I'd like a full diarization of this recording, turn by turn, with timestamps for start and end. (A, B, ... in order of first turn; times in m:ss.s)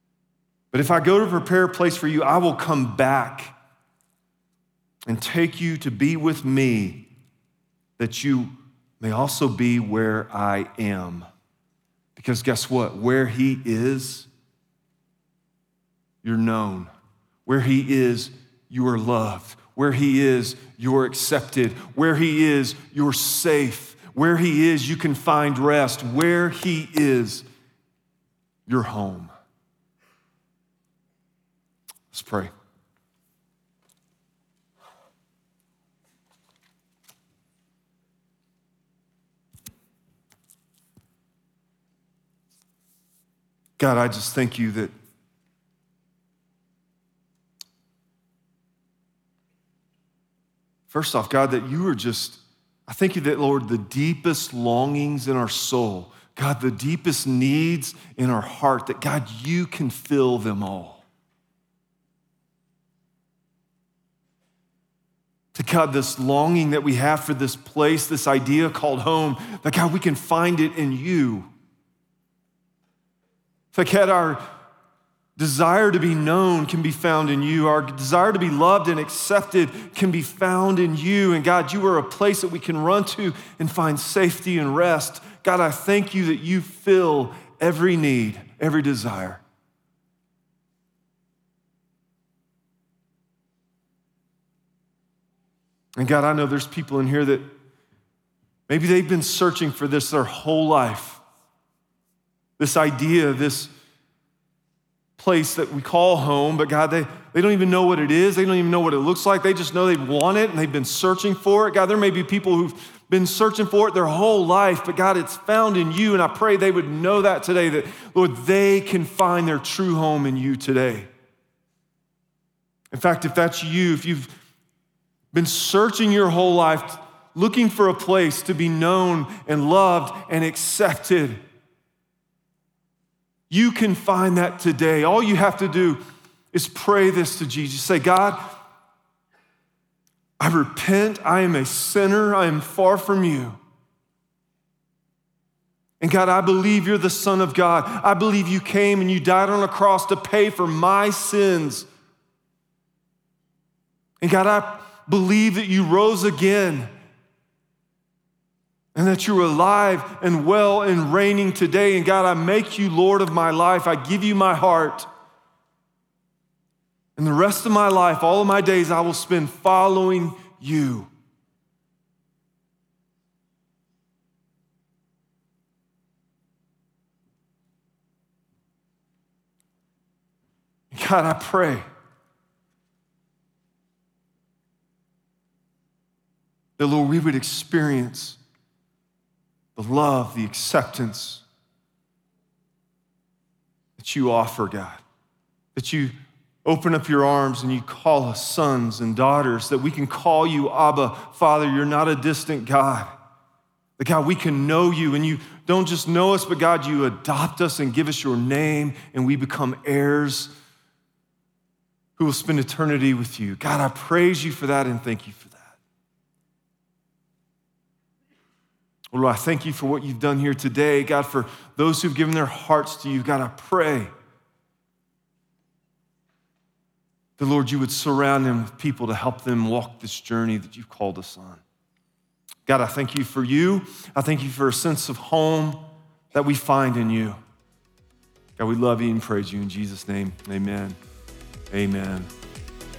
0:00.7-0:03.5 A
0:05.1-0:07.1 A
0:08.0-0:11.2 A
0:12.1-0:14.3 A
0:16.2-0:16.9 A
0:17.4-0:27.4 A
0:28.7-0:29.3 A
0:32.1-0:32.5 A
0:43.8-0:44.9 A
0:50.9-1:01.0 A
1:05.5-1:11.5 A
1:13.7-1:14.4 A
1:15.4-1:29.4 A
1:36.0-1:37.4 A
1:38.7-1:41.2 A
1:42.6-1:43.7 A
1:45.2-2:01.1 A
2:02.9-2:04.3 A
2:05.3-2:11.4 A
2:13.5-2:16.0 A
2:16.5-2:18.6 A
2:20.4-2:23.6 A
2:26.0-2:31.9 A
2:34.2-2:36.9 A
2:38.9-2:45.1 A
2:47.2-2:51.1 A
3:00.9-3:01.8 A
3:06.8-3:08.4 A
3:09.8-3:11.4 A
3:14.0-3:15.0 A
3:15.7-3:16.1 A
3:16.6-3:23.1 A
3:24.0-3:30.5 A
3:32.2-3:35.7 A
3:39.1-3:44.1 A
3:47.4-3:51.6 A
3:52.6-3:57.4 A
3:58.6-4:01.0 A
4:01.7-4:02.3 A